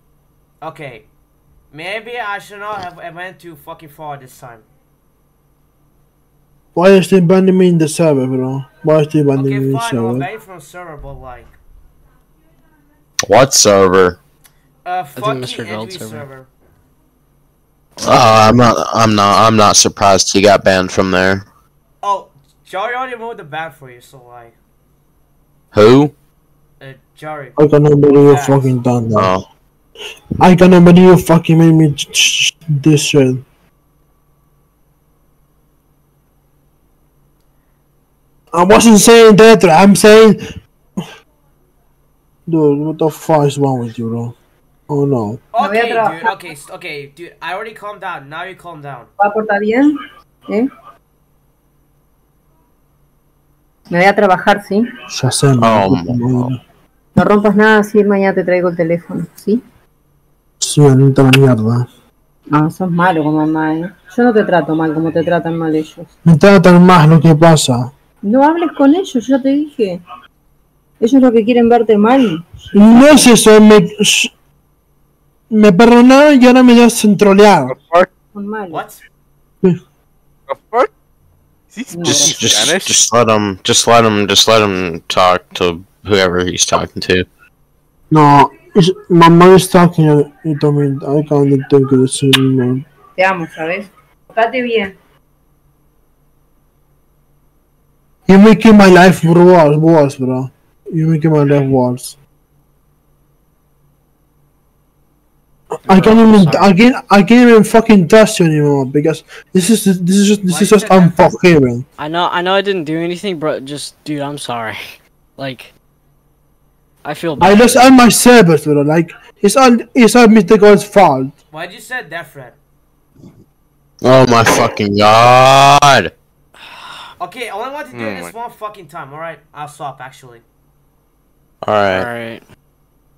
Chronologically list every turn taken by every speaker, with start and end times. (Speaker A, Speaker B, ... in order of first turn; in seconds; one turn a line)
Speaker A: 0.6-1.1
Speaker A: 1.7-4.7
Speaker B: 6.8-10.3
Speaker A: 9.3-11.5
Speaker C: 13.3-14.2
Speaker A: 14.8-16.5
Speaker D: 15.2-16.3
Speaker D: 18.0-18.5
Speaker C: 18.0-21.4
Speaker A: 22.0-24.6
Speaker C: 25.7-26.1
Speaker A: 26.8-28.8
Speaker B: 27.6-29.3
Speaker C: 29.1-29.4
Speaker B: 30.4-33.4
Speaker B: 38.5-40.4
Speaker B: 42.5-44.4
Speaker B: 44.9-45.4
Speaker A: 45.5-49.1
Speaker E: 45.6-46.3
Speaker E: 49.2-49.9
Speaker E: 53.9-54.9
Speaker B: 55.1-56.6
Speaker C: 55.6-56.5
Speaker E: 57.2-59.6
Speaker B: 60.6-61.9
Speaker E: 62.5-66.1
Speaker B: 66.2-67.9
Speaker E: 68.2-70.0
Speaker E: 71.0-72.4
Speaker B: 72.7-74.3
Speaker B: 75.5-77.7
Speaker F: 77.7-78.1
Speaker E: 78.3-78.8
Speaker A: 78.7-79.0
Speaker F: 80.5-80.9
Speaker F: 81.7-83.0
Speaker E: 81.9-82.4
Speaker C: 82.0-87.3
Speaker B: 88.1-92.9
Speaker E: 93.2-94.9
Speaker B: 98.3-102.2
Speaker D: 105.8-106.7
Speaker B: 105.8-111.8
Speaker A: 110.5-111.4
Speaker D: 112.0-115.7
Speaker D: 117.0-117.9
Speaker B: 117.4-121.3
Speaker A: 121.5-122.6
Speaker C: 124.0-126.1
Speaker A: 127.2-130.4
Speaker F: 127.9-128.3
Speaker C: 131.6-132.1
Speaker D: 131.9-132.4